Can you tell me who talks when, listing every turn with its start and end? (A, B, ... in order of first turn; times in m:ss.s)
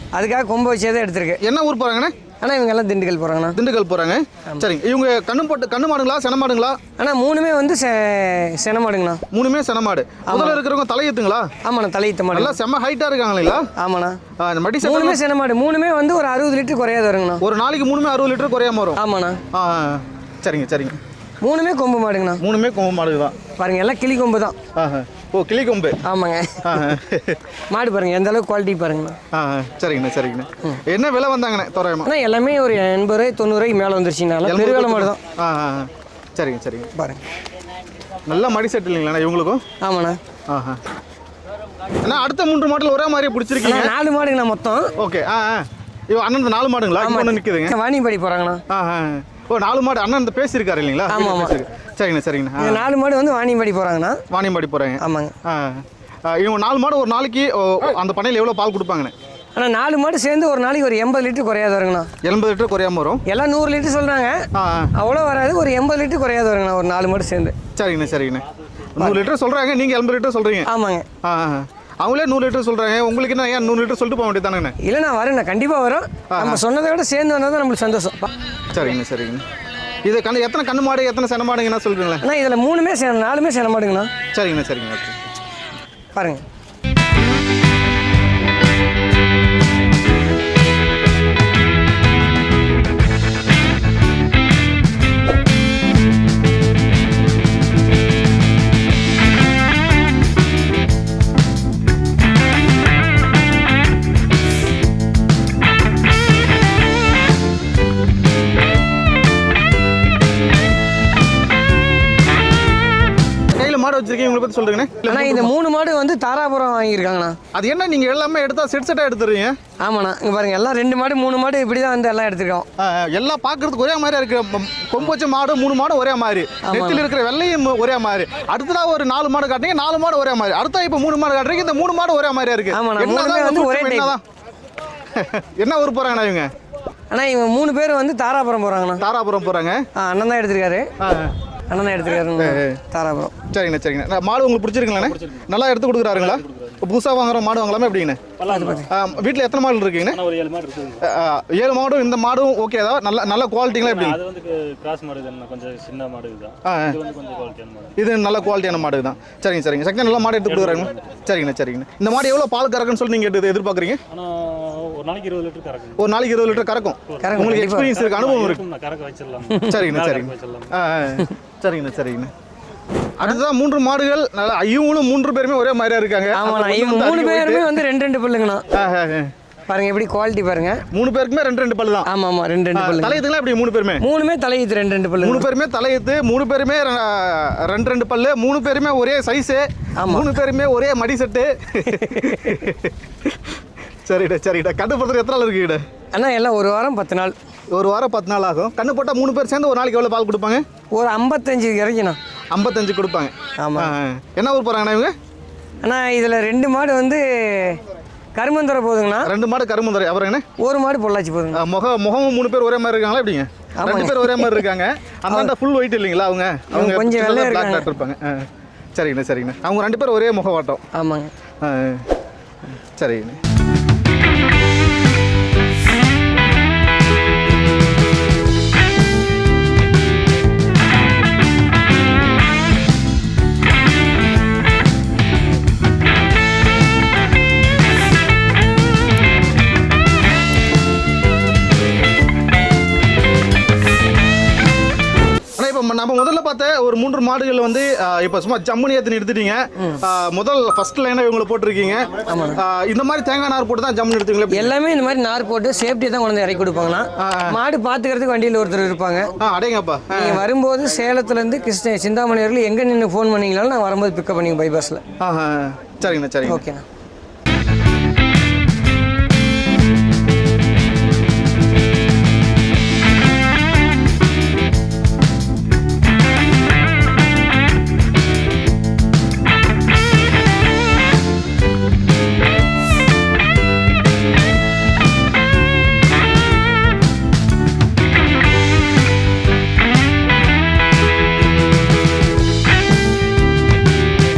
0:00.1-0:01.4 A
0:01.4-0:02.1 B
0:02.4-0:03.6 A
0:03.6-0:06.8 B
0:07.0-0:09.2 A
0:09.3-0:11.5 B
0:10.3-0:10.6 A
0:11.6-0:12.6 A
0:12.3-0:13.7 B
0:13.8-0:14.2 A
0:14.4-0:15.2 B
0:14.8-0:17.4 A
0:17.4-0:19.0 B
0:19.0-0:19.4 A
0:19.5-0:21.0 B
0:21.4-0:22.4 A
0:22.4-0:23.4 B
0:23.6-0:24.6 A
0:24.8-0:26.0 B
0:26.0-0:26.9 A
0:26.6-0:27.4 B
0:27.7-0:29.2 A
0:29.3-0:32.1 B
0:32.0-0:35.2 A
0:34.4-0:36.9 B
0:36.9-0:37.2 A
0:38.3-0:39.6 B
0:39.8-0:40.2 A
0:40.5-0:40.8 B
0:42.0-0:43.9 B
0:43.6-0:44.9 A
0:45.0-0:47.7 B
0:47.0-0:48.6 A
0:48.7-0:52.8 B
0:51.1-0:51.6 A
0:52.6-0:54.2 A
0:54.3-0:59.1 B
0:55.0-0:55.3 A
0:59.5-1:02.1 A
1:02.2-1:03.2 B
1:03.3-1:04.4 A
1:04.5-1:04.9 B
1:05.0-1:07.5 A
1:07.8-1:08.4 B
1:09.0-1:10.7 B
1:09.0-1:09.3 A
1:10.6-1:11.0 A
1:11.2-1:14.7 B
1:14.8-1:18.3 A
1:16.3-1:16.6 B
1:18.7-1:19.4 B
1:20.0-1:22.2 B
1:22.2-1:24.1 A
1:24.3-1:25.2 B
1:26.1-1:26.4 A
1:53.5-1:55.5 B
1:55.0-1:57.4 A
1:57.5-1:59.6 B
1:59.8-2:02.6 A
2:02.8-2:14.2 B
2:06.6-2:07.0 A
2:12.7-2:14.2 A
2:15.1-2:16.5 B
2:17.1-2:19.0 A
2:19.0-2:19.8 B
2:20.0-2:20.8 A
2:21.0-2:21.3 B
2:21.7-2:23.3 A
2:22.4-2:22.8 B
2:23.5-2:28.3 B
2:25.0-2:25.4 C
2:26.1-2:26.8 C
2:28.4-2:29.4 C
2:28.5-2:28.9 A
2:28.9-2:30.2 B
2:30.0-2:31.0 C
2:31.0-2:34.2 B
2:33.8-2:38.0 C
2:36.6-2:37.0 B
2:38.0-2:44.0 B
2:40.3-2:41.2 C
2:44.1-2:50.7 C
2:46.0-2:48.6 B
2:47.2-2:47.9 A
2:49.5-2:49.9 A
2:49.7-2:52.3 B
2:53.2-2:57.7 B
2:56.3-2:58.6 A
2:58.7-2:59.3 B
2:59.7-3:00.8 A
3:00.9-3:02.1 B
3:02.0-3:03.2 A
3:02.7-3:04.0 B
3:04.0-3:05.5 A
3:05.2-3:15.8 B
3:10.0-3:10.3 A
3:11.9-3:12.6 A
3:16.1-3:17.3 A
3:17.7-3:20.6 B
3:20.9-3:22.2 A
3:22.5-3:25.1 B
3:23.6-3:23.9 A
3:25.8-3:27.8 A
3:28.3-3:29.3 A
3:29.2-3:30.4 B
3:30.6-3:31.6 A
3:31.6-3:40.8 B
3:33.8-3:34.6 A
3:36.7-3:37.9 A
3:40.9-3:41.3 A
3:41.6-3:42.1 B
3:43.0-3:43.4 B
4:05.6-4:14.7 B
4:12.2-4:12.6 A
4:14.5-4:19.3 A
4:17.2-4:17.6 B
4:19.4-4:20.4 B
4:20.1-4:25.0 A
4:25.2-4:26.6 B
4:26.4-4:26.8 A